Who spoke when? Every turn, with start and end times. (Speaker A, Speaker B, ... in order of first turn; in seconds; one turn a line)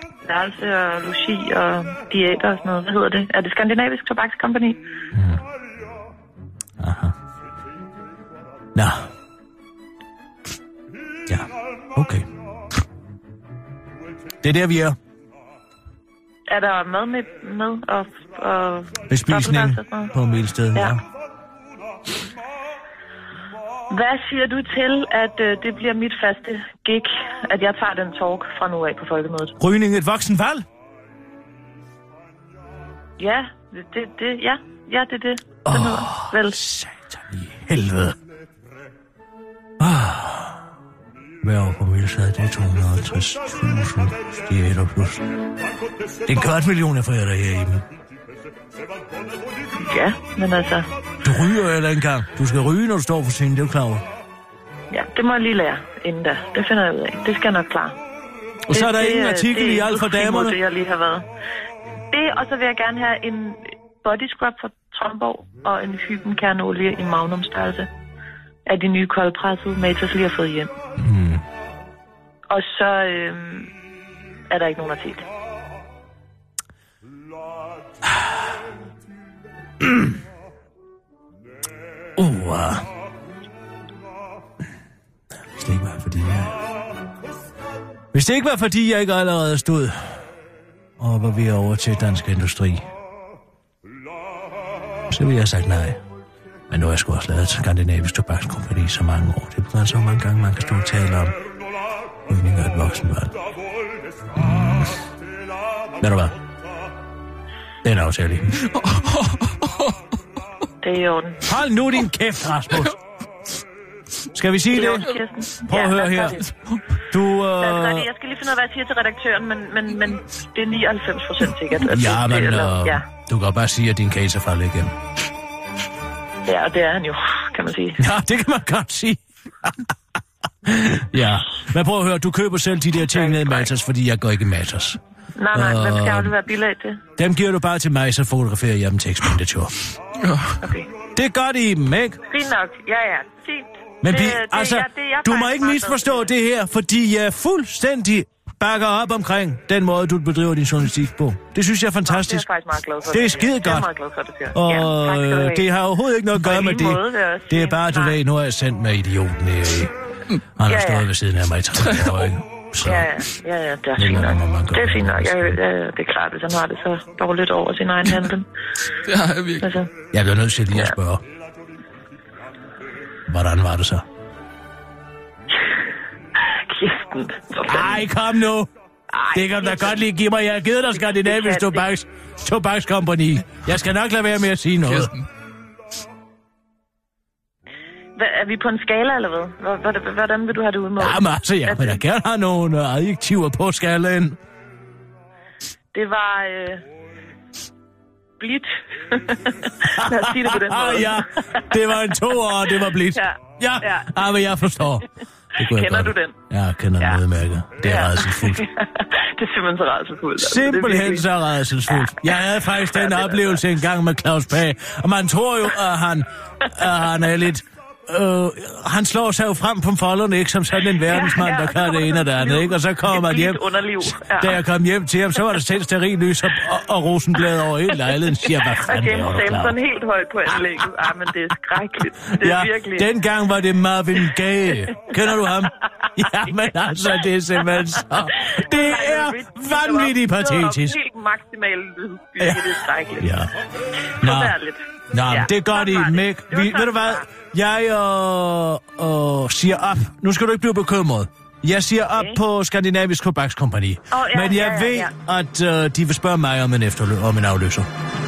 Speaker A: 0.2-4.8
Speaker B: 5.1-5.4
Speaker B: 6.8-7.1
Speaker B: 8.8-9.1
Speaker B: 11.3-12.3
Speaker B: 14.4-15.0
Speaker A: 16.5-20.1
Speaker B: 19.1-21.0
Speaker A: 23.9-29.6
Speaker B: 29.6-30.6
Speaker A: 33.2-36.6
Speaker B: 35.6-38.1
Speaker B: 39.8-40.6
Speaker B: 41.4-45.2
Speaker B: 46.2-47.8
Speaker A: 49.8-50.9
Speaker B: 51.2-54.0
Speaker A: 54.9-58.0
Speaker B: 58.7-60.6
Speaker A: 58.7-61.2
Speaker A: 62.1-67.9
Speaker A: 68.7-70.7
Speaker B: 71.0-71.4
Speaker A: 72.5-73.7
Speaker A: 74.5-75.3
Speaker B: 79.8-80.2
Speaker B: 82.2-82.8
Speaker B: 85.6-86.6
Speaker B: 88.1-90.3
Speaker B: 91.0-92.8
Speaker B: 95.1-96.0
Speaker B: 96.7-101.3
Speaker B: 102.3-103.3
Speaker B: 104.3-105.0
Speaker B: 106.0-106.3
Speaker B: 107.8-108.6
Speaker C: 108.6-110.0
Speaker A: 110.8-111.4
Speaker B: 111.5-112.9
Speaker B: 114.3-115.1
Speaker A: 114.7-116.4
Speaker B: 115.7-116.4
Speaker C: 116.4-116.8
Speaker B: 117.1-118.1
Speaker A: 117.6-123.0
Speaker B: 121.9-124.9
Speaker A: 126.5-128.1
Speaker B: 128.0-129.9
Speaker B: 130.6-135.0
Speaker A: 133.0-133.7
Speaker A: 135.3-137.0
Speaker B: 135.5-136.3
Speaker B: 137.2-139.7
Speaker C: 140.2-140.6
Speaker A: 140.6-140.9
Speaker B: 141.1-142.2
Speaker A: 142.3-146.3
Speaker B: 144.0-152.4
Speaker A: 152.0-155.7
Speaker B: 153.1-153.9
Speaker B: 154.5-159.9
Speaker A: 156.4-158.2
Speaker B: 160.6-163.2
Speaker A: 160.7-161.1
Speaker C: 161.8-162.3
Speaker A: 162.8-168.5
Speaker B: 164.0-165.6
Speaker C: 169.0-169.7
Speaker A: 169.6-169.9
Speaker B: 170.1-171.2
Speaker B: 173.3-174.0
Speaker A: 176.3-178.0
Speaker B: 177.7-178.7
Speaker A: 179.1-180.0
Speaker B: 179.3-185.1
Speaker A: 181.1-181.8
Speaker C: 184.8-185.2
Speaker A: 188.2-192.0
Speaker B: 191.0-194.4
Speaker A: 195.9-196.8
Speaker A: 198.4-204.4
Speaker B: 199.9-208.6
Speaker A: 205.6-206.3
Speaker A: 207.8-211.3
Speaker B: 210.4-223.6
Speaker A: 211.9-213.6
Speaker A: 221.0-224.6
Speaker B: 224.2-229.8
Speaker A: 227.9-233.1
Speaker B: 232.3-241.0
Speaker A: 238.4-243.3
Speaker B: 242.4-243.5
Speaker B: 244.2-244.5
Speaker A: 244.2-247.2
Speaker B: 245.1-257.9
Speaker A: 254.1-255.1